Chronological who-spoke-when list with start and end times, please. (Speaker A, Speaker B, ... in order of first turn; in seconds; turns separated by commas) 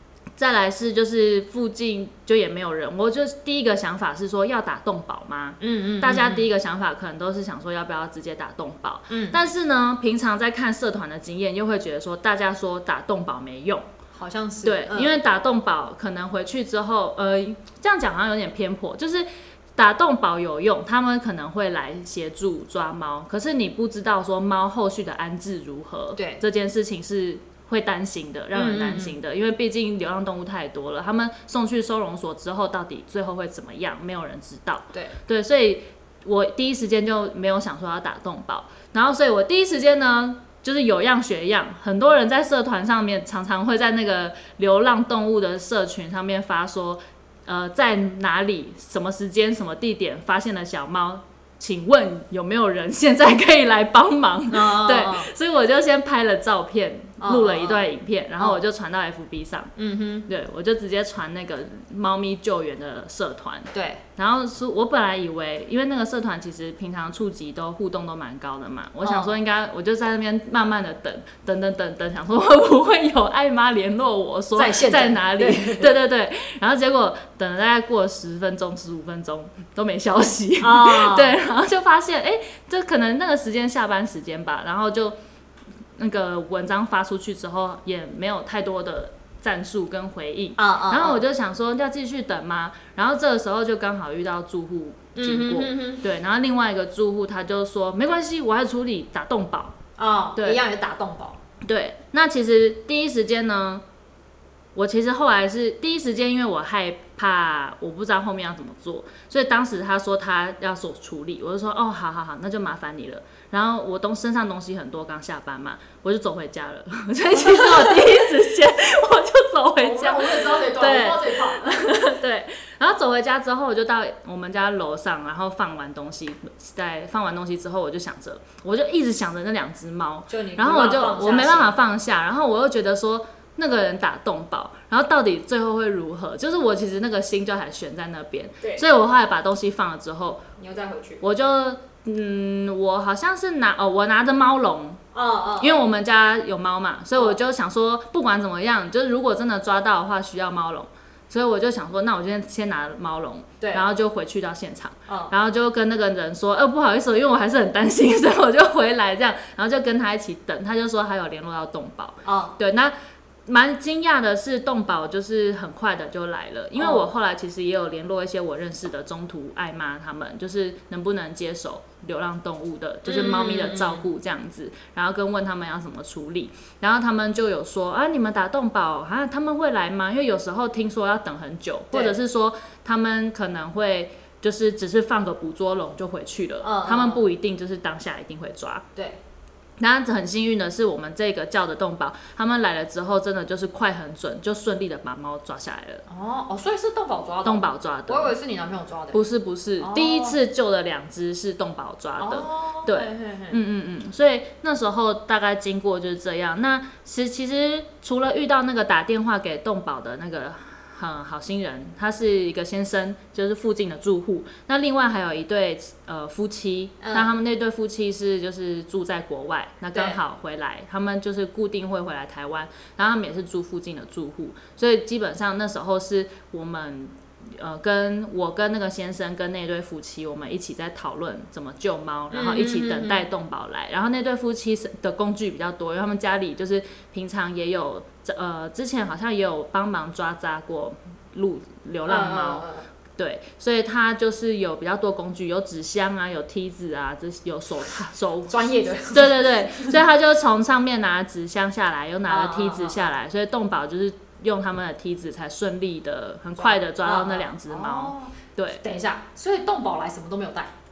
Speaker A: 0.4-13.9, Speaker B: 5.6-6.5, Speaker B: 9.1-9.4, Speaker B: 14.2-15.2, Speaker A: 14.6-59.7, Speaker B: 26.1-26.4, Speaker B: 28.5-29.2, Speaker B: 54.5-55.3, Speaker B: 57.2-58.6, Speaker B: 59.8-60.3, Speaker A: 60.3-85.2, Speaker B: 63.7-64.0, Speaker B: 69.0-69.3, Speaker B: 74.5-76.0, Speaker B: 80.6-81.3, Speaker A: 86.0-99.8, Speaker B: 90.6-91.2, Speaker B: 95.2-96.0, Speaker B: 100.0-101.4, Speaker A: 100.3-100.6, Speaker A: 101.6-103.8, Speaker A: 104.7-140.5, Speaker B: 119.8-122.0, Speaker B: 130.3-131.8, Speaker B: 140.6-141.2, Speaker A: 141.2-145.0, Speaker B: 145.1-145.8, Speaker A: 145.6-162.9, Speaker B: 153.6-153.8, Speaker B: 155.1-155.3, Speaker B: 162.2-162.6, Speaker A: 163.4-188.8, Speaker B: 166.8-167.1, Speaker B: 173.0-174.1, Speaker B: 186.6-187.2, Speaker A: 189.8-196.0, Speaker B: 196.1-199.2, Speaker A: 197.4-198.3, Speaker A: 199.1-258.8, Speaker B: 199.8-200.4, Speaker B: 202.2-203.6, Speaker B: 217.0-217.3, Speaker B: 232.3-233.2, Speaker B: 242.1-242.8, Speaker B: 248.5-249.9, Speaker B: 252.3-253.0, Speaker B: 256.6-260.7